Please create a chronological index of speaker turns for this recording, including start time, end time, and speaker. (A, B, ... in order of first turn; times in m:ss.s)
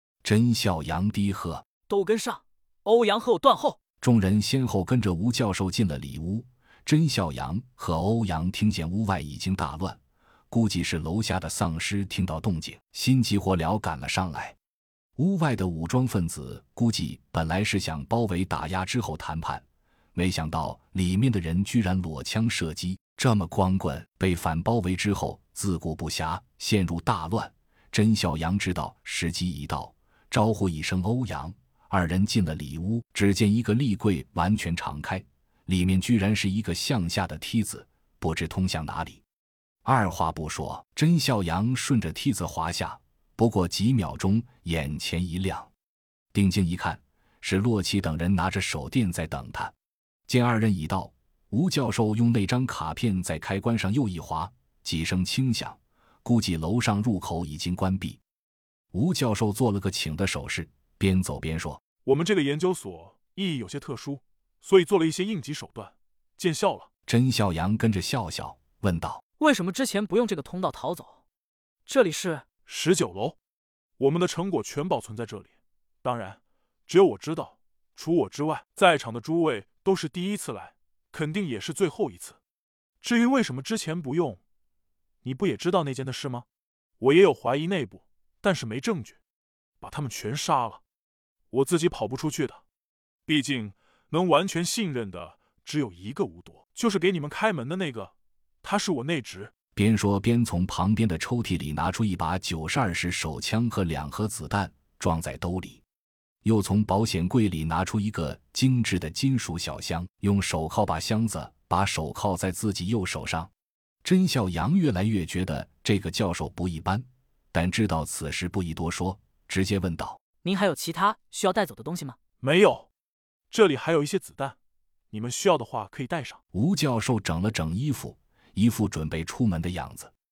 0:00.2-0:01.6 A
0:01.9-0:03.8 B
0:04.0-0:14.5 A
0:15.2-0:39.2 A
0:39.8-0:45.7 A
0:46.3-0:49.7 A
0:50.3-0:58.2 A
0:58.9-1:01.8 A
1:02.0-1:06.9 C
1:07.1-1:09.2 A
1:09.4-1:11.2 B
1:11.8-1:12.4 B
1:12.6-1:13.4 C
1:14.0-1:15.5 C
1:16.0-1:22.4 C
1:23.0-1:24.4 C
1:25.2-1:26.4 C
1:27.0-1:29.2 C
1:29.8-1:30.8 C
1:31.5-1:32.6 C
1:33.3-1:39.5 C
1:39.7-1:45.8 A
1:46.4-1:53.5 A
1:54.0-2:00.2 A
2:00.4-2:02.2 B
2:02.4-2:02.9 C
2:03.5-2:04.6 C
2:05.1-2:06.4 C
2:06.5-2:10.1 A